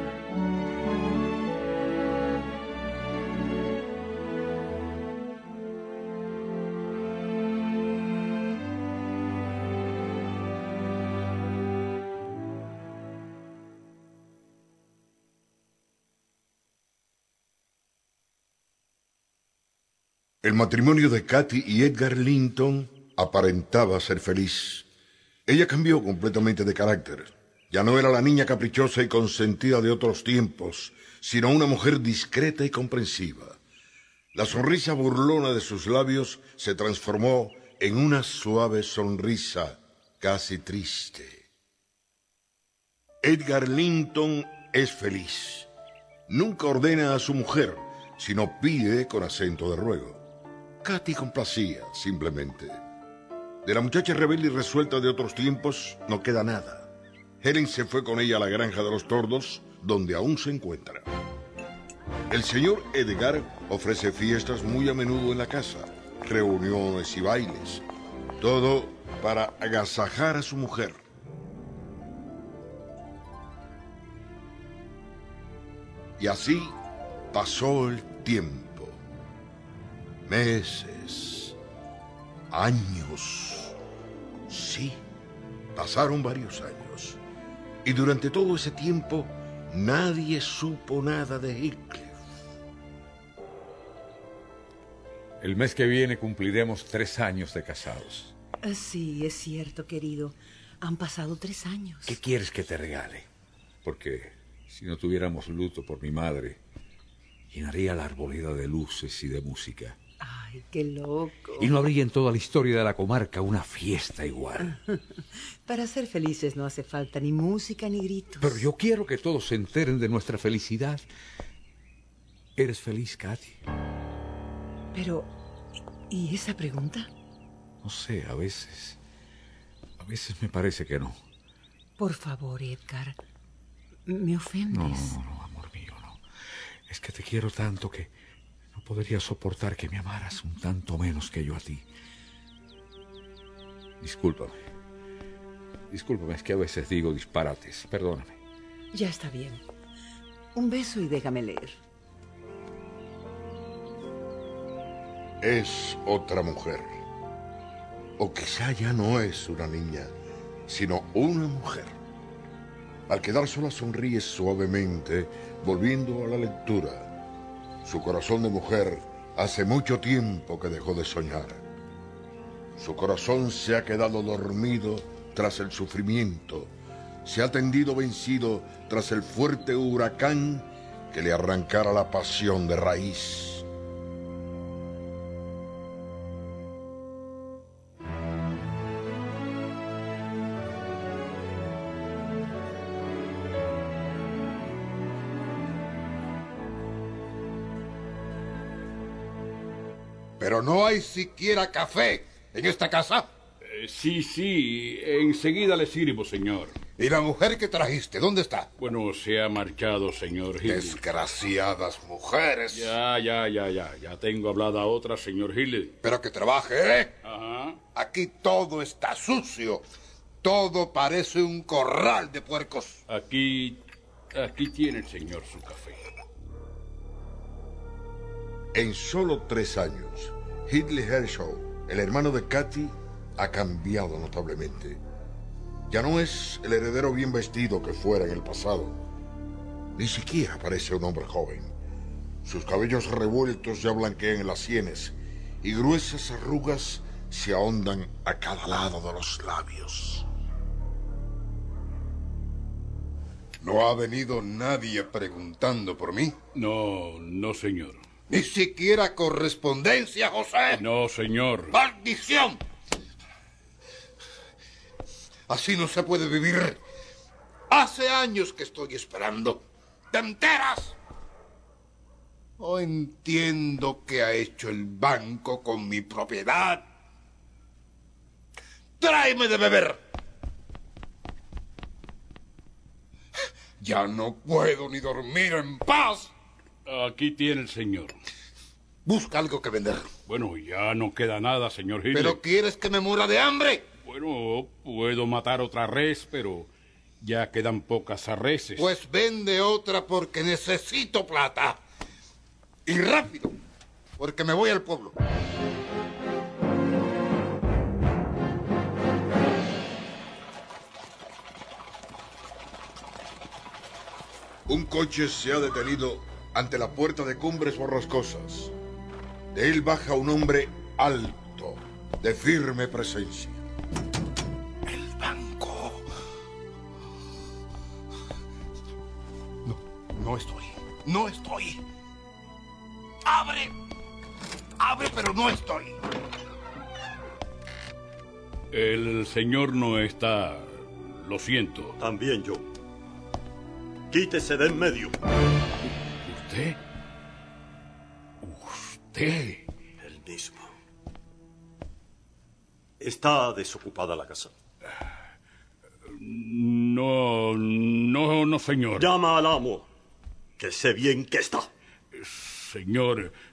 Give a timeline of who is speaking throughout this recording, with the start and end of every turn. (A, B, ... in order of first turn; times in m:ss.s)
0:20.4-0:24.9 A
0:25.5-0:33.6 A
0:34.3-0:41.5 A
0:43.2-0:45.7 A
0:46.3-0:50.2 A
0:50.8-0:52.8 A
0:53.6-1:01.1 A
1:02.3-1:07.8 A
1:08.4-1:11.0 A
1:16.2-1:16.8 A
1:17.3-1:19.0 A
1:20.3-1:21.6 A
1:22.5-1:23.8 A
1:24.5-1:25.0 A
1:25.8-1:27.2 A
1:27.8-1:32.2 A
1:35.4-1:38.3 B
1:38.6-1:42.2 C
1:42.1-1:43.3 B
1:43.8-1:46.6 B
1:47.5-1:50.0 B
1:50.2-1:51.7 C
1:51.6-1:54.8 B
1:54.6-1:55.0 C
1:55.7-1:58.6 C
1:58.4-2:01.0 B
2:02.6-2:03.6 B
2:04.9-2:05.3 C
2:06.1-2:07.1 C
2:07.8-2:09.0 B
2:10.0-2:11.2 B
2:12.0-2:13.2 C
2:14.1-2:15.2 C
2:14.7-2:16.2 B
2:16.9-2:18.1 B
2:18.8-2:21.9 B
2:24.0-2:24.6 B
2:25.9-2:28.4 B
2:28.9-2:29.6 C
2:30.6-2:31.8 C
2:35.4-2:37.0 A
2:38.2-2:40.1 A
2:40.7-2:42.0 A
2:43.1-2:47.1 A
2:47.8-2:51.6 A
2:52.8-2:56.7 A
2:57.2-3:03.6 A
3:20.4-3:23.3 D
3:23.6-3:26.8 E
3:27.0-3:28.7 D
3:28.8-3:31.0 E
3:30.6-3:33.0 D
3:32.7-3:36.0 E
3:36.0-3:37.2 D
3:37.2-3:37.8 E
3:37.9-3:39.8 D
3:40.4-3:43.0 D
3:43.1-3:43.8 E
3:44.3-3:46.0 E
3:48.7-3:55.0 A
3:55.9-3:59.0 A
4:00.0-4:01.7 A
4:02.4-4:10.3 A
4:13.6-4:16.4 D
4:16.6-4:18.0 E
4:18.3-4:20.8 D
4:20.7-4:21.7 E
4:21.7-4:22.6 D
4:25.5-4:26.8 D
4:27.7-4:31.0 D
4:32.6-4:36.9 D
4:39.0-4:40.0 D
4:43.8-4:46.3 D
4:46.9-4:48.2 E
4:49.0-4:50.1 D
4:50.3-4:52.4 E
4:52.1-4:53.9 D
4:54.1-4:56.7 E
4:57.2-4:59.0 E
4:58.8-5:01.8 D
5:02.9-5:03.6 D
5:04.2-5:05.2 D
5:14.7-5:18.7 A
5:19.5-5:23.6 A
5:24.9-5:26.1 D
5:29.6-5:31.8 D
5:33.3-5:33.7 D
5:34.8-5:36.0 D
5:38.7-5:42.0 E
5:42.0-5:42.6 F
5:44.1-5:45.2 F
5:46.2-5:46.8 E
5:48.4-5:49.6 E
5:50.0-5:50.7 F
5:53.0-5:54.5 F
5:56.1-5:59.1 E
5:59.0-5:59.9 F
6:00.6-6:01.7 F
6:02.1-6:03.3 E